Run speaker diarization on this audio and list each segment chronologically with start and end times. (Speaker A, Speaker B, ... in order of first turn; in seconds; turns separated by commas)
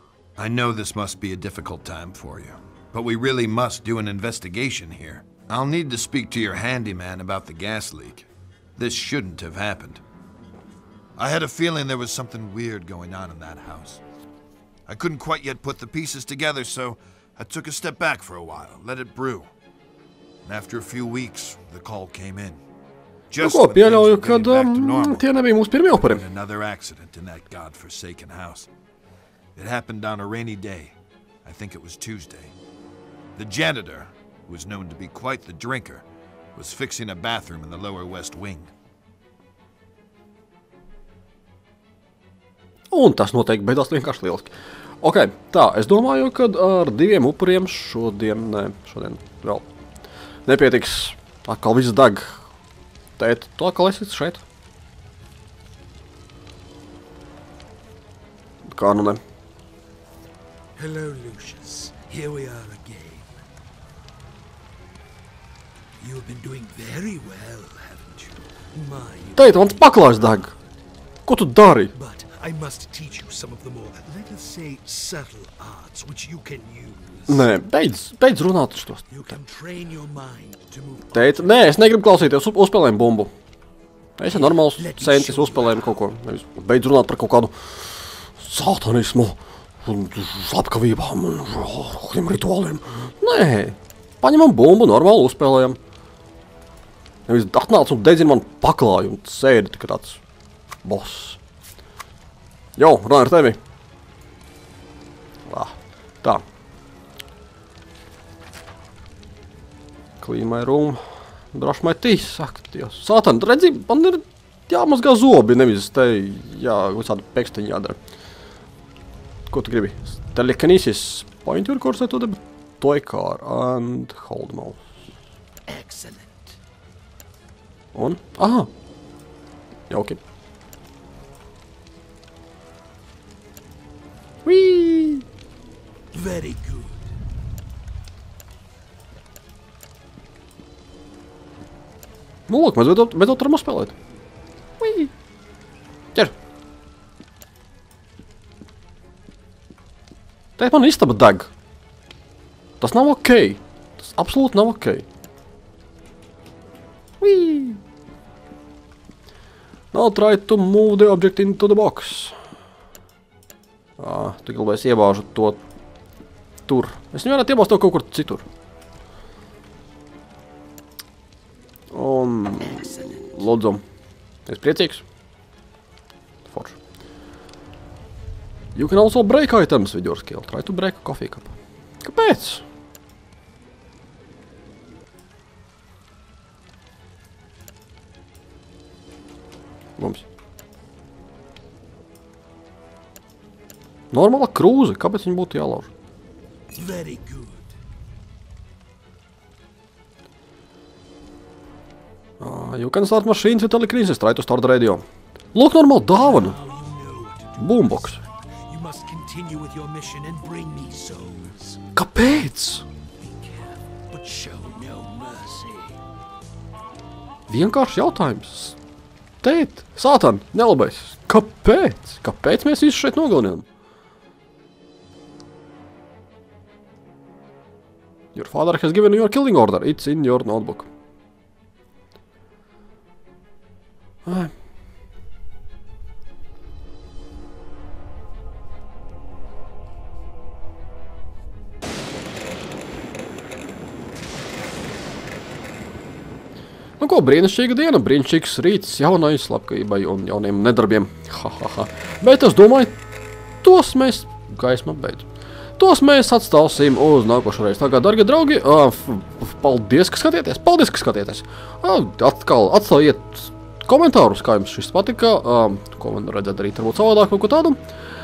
Speaker A: 0.4-10.0, Speaker A: 11.2-14.0, Speaker A: 14.9-19.5, Speaker A: 20.4-22.6, Speaker A: 23.3-25.2, Speaker B: 23.4-26.2, Speaker A: 25.9-28.7, Speaker A: 29.6-32.5, Speaker A: 33.4-38.7, Speaker B: 42.9-49.7, Speaker B: 50.5-52.5, Speaker B: 53.2-54.4, Speaker B: 58.7-59.2, Speaker C: 60.8-63.4, Speaker C: 66.0-70.6, Speaker B: 69.4-70.5, Speaker B: 71.3-71.9, Speaker C: 72.0-77.5, Speaker B: 77.3-79.3, Speaker C: 79.1-82.3, Speaker B: 81.1-83.3, Speaker B: 84.2-95.8, Speaker C: 84.2-86.0, Speaker B: 97.3-100.2, Speaker B: 100.8-101.4, Speaker B: 102.8-103.6, Speaker B: 105.5-106.4, Speaker B: 110.2-111.0, Speaker B: 111.5-118.0, Speaker B: 119.5-124.8, Speaker C: 125.7-126.6, Speaker B: 127.9-128.7, Speaker B: 129.9-130.2, Speaker B: 134.4-135.3, Speaker C: 136.1-137.1, Speaker B: 142.5-143.9, Speaker B: 144.8-145.1, Speaker B: 150.6-151.5, Speaker B: 152.8-155.1, Speaker B: 157.2-157.8, Speaker B: 159.9-162.4, Speaker B: 164.0-165.6, Speaker B: 166.7-168.5, Speaker B: 171.9-173.8, Speaker C: 172.6-173.4, Speaker B: 174.5-175.0, Speaker B: 176.5-176.8, Speaker B: 178.8-182.6, Speaker B: 190.0-190.2, Speaker B: 194.1-195.9, Speaker C: 196.7-197.8, Speaker B: 202.4-206.6, Speaker C: 206.2-211.8, Speaker B: 207.6-208.2, Speaker B: 211.9-212.8, Speaker C: 213.2-216.0, Speaker B: 217.5-218.8, Speaker B: 219.4-223.7, Speaker B: 228.3-230.9, Speaker B: 234.3-234.5, Speaker B: 247.0-253.0, Speaker B: 253.6-267.8